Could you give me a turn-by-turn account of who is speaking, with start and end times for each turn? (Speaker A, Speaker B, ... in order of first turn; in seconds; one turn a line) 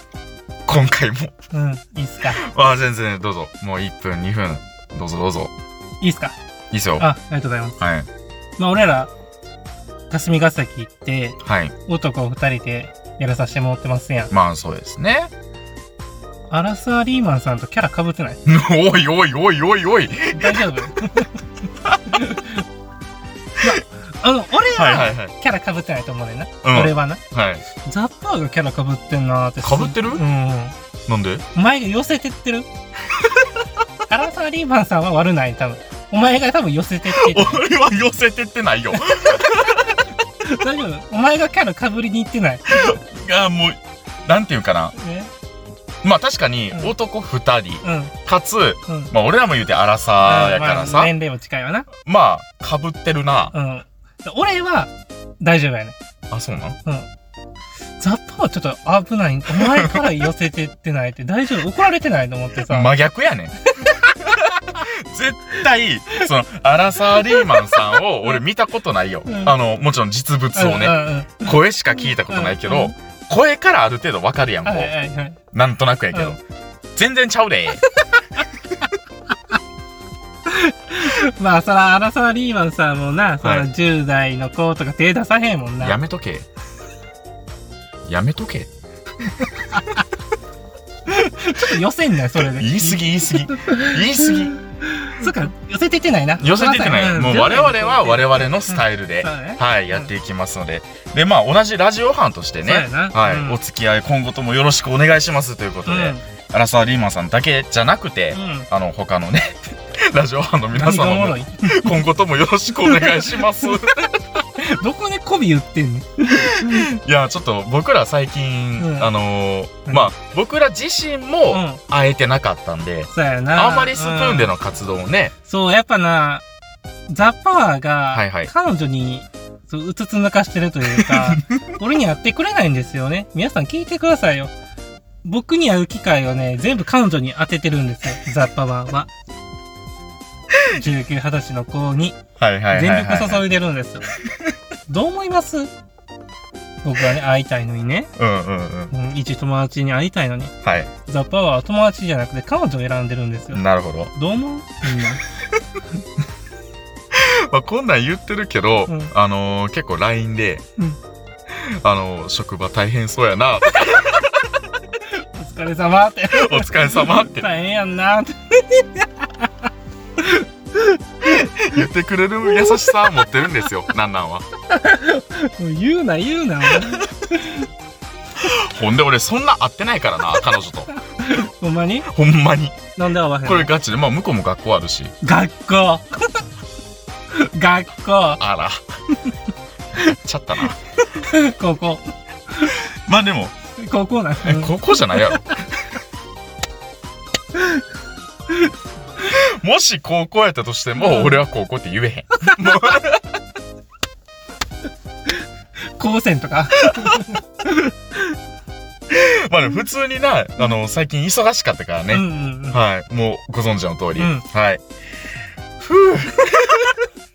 Speaker A: 0.7-1.3
Speaker B: 1.5-2.4
Speaker A: 2.4-5.5
Speaker B: 6.0-6.4
Speaker A: 6.7-7.1
Speaker B: 7.0-7.8
Speaker A: 7.8-8.1
Speaker B: 8.6-9.1
Speaker B: 10.1-14.3
Speaker A: 11.4-11.8
Speaker A: 14.3-15.3
Speaker B: 16.5-18.4
Speaker A: 18.5-20.6
Speaker B: 20.3-21.4
Speaker A: 21.9-22.1
Speaker B: 22.0-22.6
Speaker B: 23.6-27.2
Speaker A: 24.7-25.3
Speaker A: 26.6-27.6
Speaker B: 27.8-30.8
Speaker A: 29.6-30.2
Speaker A: 31.1-31.4
Speaker B: 31.5-32.7
Speaker B: 34.1-37.6
Speaker A: 37.1-40.0
Speaker B: 39.1-39.8
Speaker B: 40.4-42.6
Speaker A: 42.8-45.0
Speaker B: 45.0-45.3
Speaker A: 46.0-51.1
Speaker B: 47.8-48.1
Speaker B: 50.2-51.9
Speaker A: 52.0-53.5
Speaker B: 53.5-56.0
Speaker A: 56.3-56.8
Speaker B: 58.0-62.9
Speaker A: 62.7-63.6
Speaker A: 64.2-74.9
Speaker B: 67.2-67.7
Speaker B: 69.3-69.5
Speaker B: 70.5-72.9
Speaker B: 74.7-75.4
Speaker A: 75.5-76.4
Speaker B: 76.1-76.4
Speaker A: 77.0-77.9
Speaker B: 80.5-86.0
Speaker A: 85.8-86.5
Speaker A: 88.1-88.7
Speaker B: 91.1-100.1
Speaker A: 92.4-94.6
Speaker A: 96.4-114.0
Speaker B: 102.6-103.6
Speaker B: 105.9-106.2
Speaker B: 108.3-108.7
Speaker B: 110.8-112.0
Speaker B: 112.8-113.7
Speaker B: 114.5-116.9
Speaker A: 116.3-125.3
Speaker B: 118.8-119.1
Speaker B: 119.9-120.1
Speaker B: 121.5-121.8
Speaker B: 123.1-124.5
Speaker B: 125.5-126.4
Speaker B: 127.1-134.5
Speaker A: 128.1-128.5
Speaker A: 131.0-131.7
Speaker B: 135.2-139.1
Speaker B: 140.7-142.2
Speaker A: 142.4-143.5
Speaker B: 142.7-144.1
Speaker B: 144.9-145.7
Speaker B: 146.8-148.1
Speaker A: 148.2-148.9
Speaker B: 148.9-153.6
Speaker A: 150.6-150.9
Speaker A: 153.5-154.1
Speaker B: 154.1-155.2
Speaker A: 157.1-160.6
Speaker B: 158.9-159.1
Speaker A: 161.5-164.3
Speaker B: 165.0-171.0
Speaker A: 166.3-167.5
Speaker A: 171.2-174.5
Speaker B: 172.5-172.8
Speaker B: 174.7-177.7
Speaker A: 178.4-181.0
Speaker B: 181.1-182.1
Speaker A: 182.1-182.9
Speaker B: 183.0-183.7
Speaker A: 183.4-185.1
Speaker B: 185.2-186.4
Speaker B: 187.3-188.4
Speaker A: 188.4-188.8
Speaker A: 190.1-190.8
Speaker B: 191.2-192.0
Speaker A: 192.7-193.6
Speaker B: 193.8-195.5
Speaker A: 194.4-195.5
Speaker B: 197.5-197.8
Speaker A: 199.2-203.3
Speaker B: 201.0-201.4
Speaker B: 202.4-203.0
Speaker B: 206.0-208.4
Speaker A: 206.9-207.3
Speaker A: 209.1-214.8
Speaker B: 212.1-212.8
Speaker B: 214.2-214.4
Speaker A: 215.8-217.0